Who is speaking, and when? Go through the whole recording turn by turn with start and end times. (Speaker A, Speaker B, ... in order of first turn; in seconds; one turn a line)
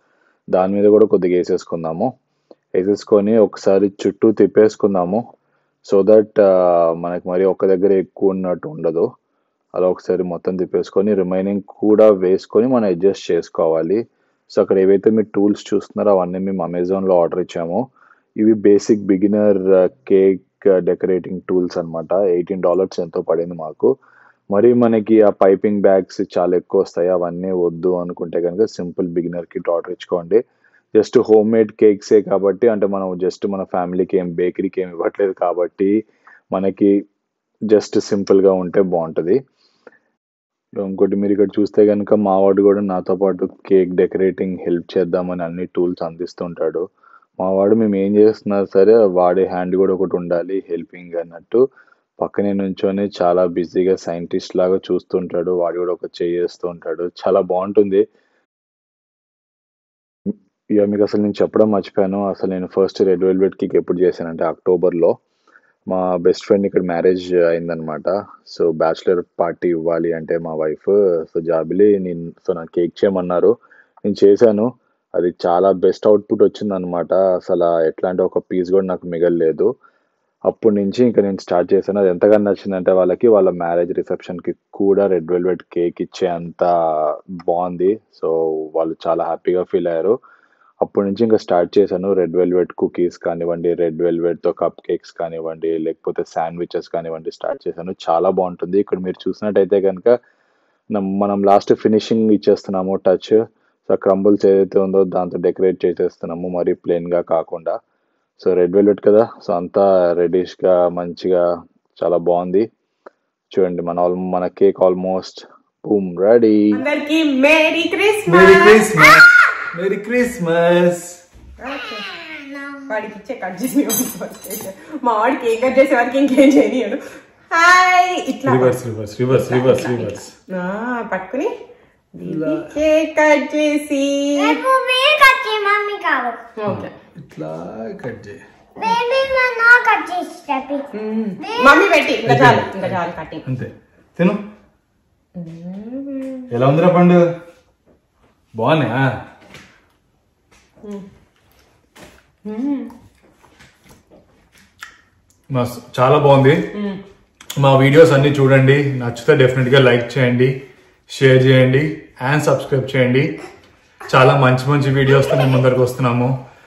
Speaker A: 0.5-2.1
Speaker A: 2.8-5.2
Speaker A: 5.9-9.1
Speaker A: 9.7-17.8
Speaker A: 18.4-23.9
Speaker A: 24.5-30.4
Speaker A: 30.9-35.9
Speaker A: 36.5-36.9
Speaker A: 37.7-39.4
Speaker A: 40.8-46.8
Speaker A: 47.4-51.6
Speaker A: 52.2-58.0
Speaker A: 60.7-65.1
Speaker A: 65.9-73.5
Speaker A: 74.1-79.7
Speaker A: 80.5-90.1
Speaker A: 90.8-100.1
Speaker A: 100.9-107.7
Speaker A: 108.4-111.4
Speaker A: 112.0-112.6
Speaker A: 113.5-116.8
Speaker B: 116.7-119.2
Speaker C: 118.2-121.2
Speaker B: 121.6-122.1
Speaker B: 122.8-128.8
Speaker C: 128.4-130.3
Speaker B: 129.3-131.5
Speaker B: 132.1-134.6
Speaker C: 132.2-132.7
Speaker D: 134.4-136.5
Speaker B: 136.6-136.9
Speaker C: 136.6-138.4
Speaker D: 138.8-141.8
Speaker B: 140.9-143.4
Speaker C: 142.2-144.4
Speaker B: 145.3-146.5
Speaker C: 146.5-147.2
Speaker C: 148.6-149.1
Speaker B: 152.4-152.9
Speaker C: 155.5-156.9
Speaker C: 157.6-163.4
Speaker C: 164.1-166.3